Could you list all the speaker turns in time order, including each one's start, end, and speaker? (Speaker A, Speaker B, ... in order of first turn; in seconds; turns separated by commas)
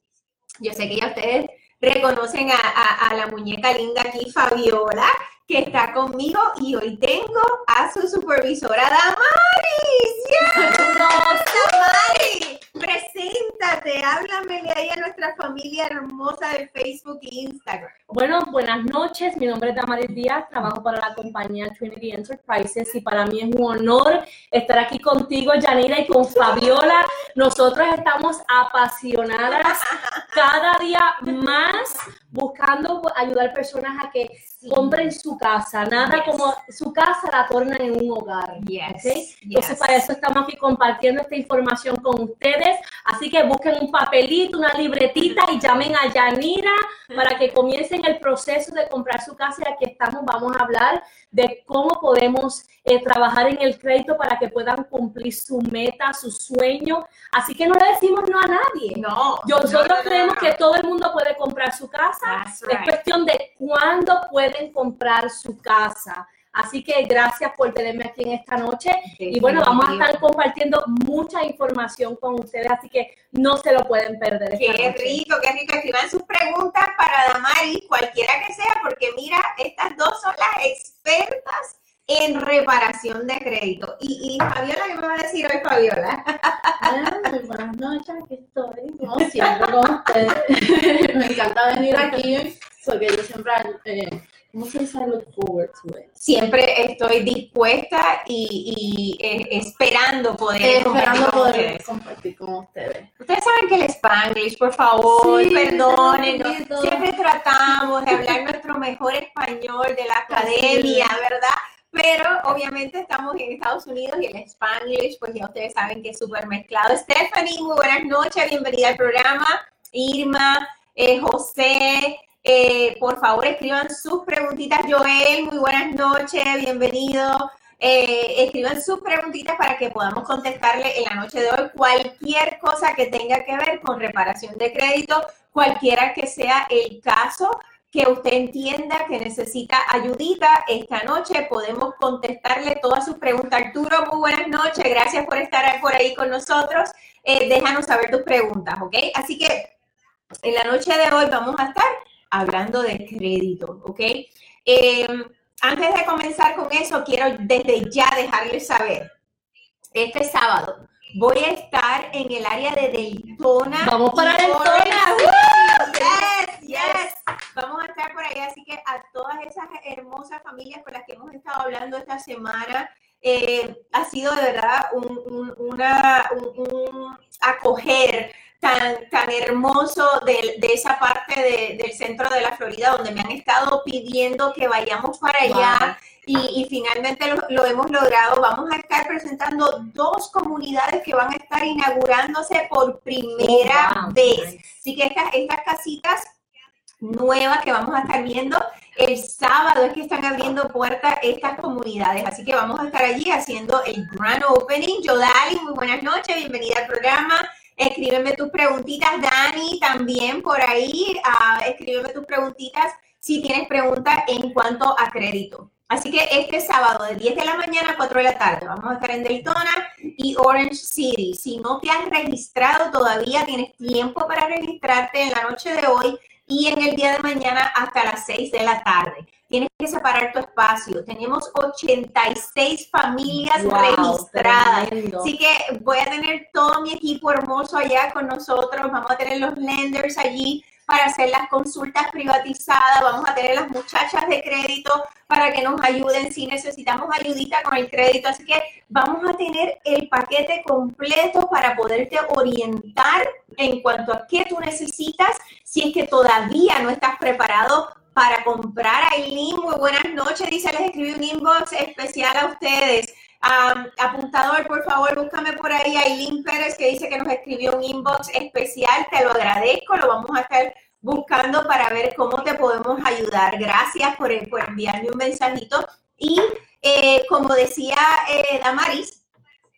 Speaker A: 0.6-17.9, Speaker B: 10.5-12.2, Speaker B: 18.1-75.2, Speaker A: 26.3-27.0, Speaker A: 29.5-30.4, Speaker A: 31.3-31.8, Speaker A: 34.6-35.1, Speaker A: 35.9-36.5, Speaker A: 38.6-40.0, Speaker A: 58.9-60.5, Speaker A: 62.2-63.0, Speaker A: 69.1-70.2, Speaker A: 74.6-87.2, Speaker C: 86.8-96.1, Speaker A: 89.4-89.7, Speaker A: 96.2-101.8, Speaker C: 100.6-103.1, Speaker A: 103.2-149.7, Speaker C: 105.0-107.1, Speaker C: 110.3-111.1, Speaker A: 150.4-159.1, Speaker A: 159.9-196.3, Speaker B: 163.8-167.1, Speaker B: 185.4-185.9, Speaker B: 193.4-194.6, Speaker A: 197.0-279.2, Speaker B: 233.5-235.3